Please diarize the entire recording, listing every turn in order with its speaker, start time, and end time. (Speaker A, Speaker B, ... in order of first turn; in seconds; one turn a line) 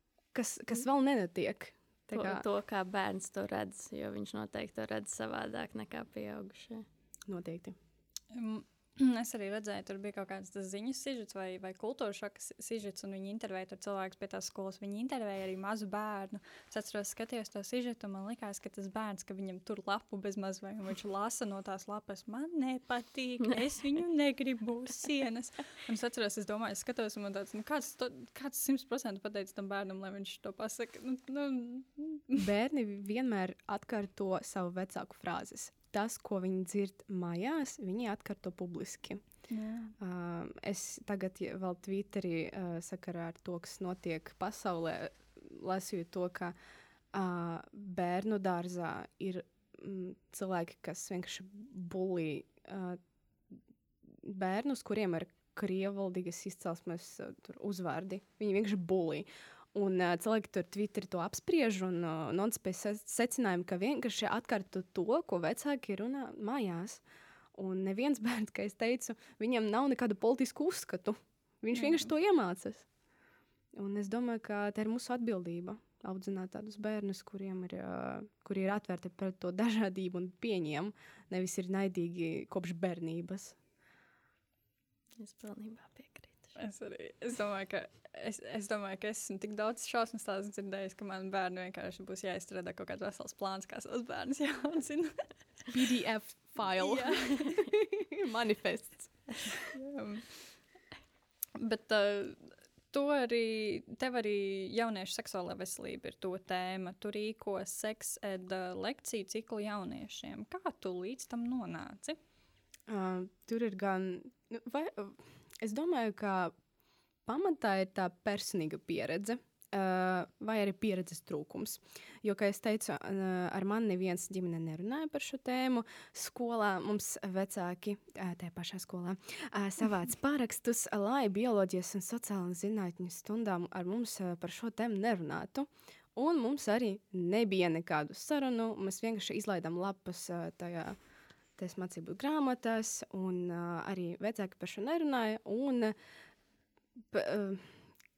Speaker A: 0.3-2.4
Speaker B: 2.1-6.8
Speaker A: 7.3-7.8
Speaker C: 8.3-32.4
Speaker A: 32.4-39.2
Speaker C: 39.5-39.9
Speaker A: 40.0-46.5
Speaker A: 47.1-53.0
Speaker A: 54.2-67.0
Speaker A: 67.5-72.9
Speaker C: 71.7-72.1
Speaker A: 73.8-83.6
Speaker B: 85.2-86.5
Speaker C: 86.5-95.3
Speaker A: 95.7-99.5
Speaker C: 96.8-97.7
Speaker C: 99.7-100.5
Speaker C: 101.6-112.2
Speaker A: 112.9-116.5
Speaker A: 117.2-141.0
Speaker A: 141.6-145.9
Speaker A: 147.1-147.7